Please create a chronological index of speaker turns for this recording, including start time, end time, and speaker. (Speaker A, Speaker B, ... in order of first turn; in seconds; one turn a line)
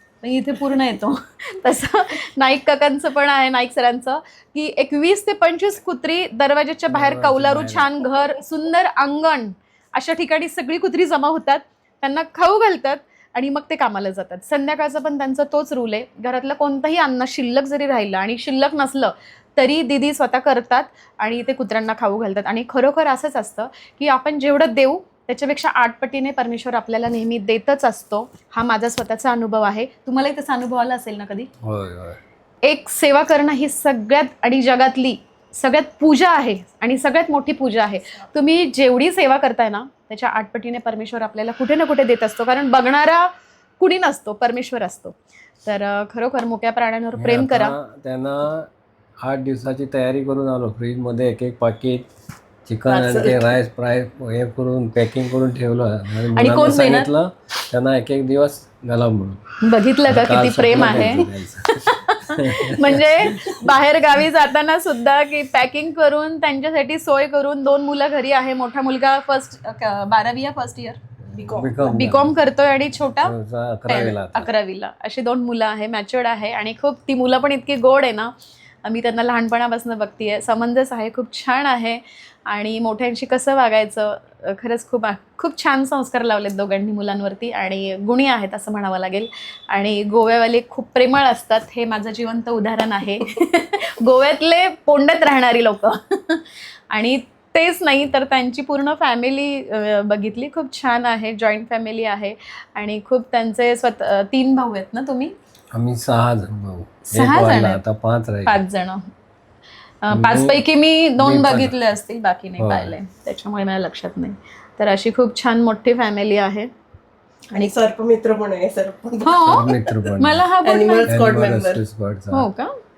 Speaker A: 0.2-31.5
Speaker B: 6.9-7.9
Speaker B: 31.6-32.2
Speaker A: 32.6-47.7
Speaker B: 47.1-48.7
Speaker B: 49.2-52.1
Speaker B: 52.6-59.4
Speaker C: 52.9-53.5
Speaker A: 56.3-57.1
Speaker A: 59.6-71.0
Speaker B: 60.0-63.5
Speaker B: 71.3-72.3
Speaker C: 71.3-71.8
Speaker A: 71.8-73.3
Speaker B: 73.2-74.5
Speaker A: 73.9-78.3
Speaker A: 78.8-105.3
Speaker B: 105.7-108.6
Speaker A: 107.1-107.8
Speaker A: 108.5-109.1
Speaker A: 110.0-116.7
Speaker B: 110.1-110.6
Speaker B: 111.2-111.7
Speaker B: 112.6-112.9
Speaker C: 117.5-119.9
Speaker A: 119.2-121.3
Speaker B: 119.4-120.5
Speaker C: 120.6-121.8
Speaker B: 121.1-122.5
Speaker A: 122.3-122.7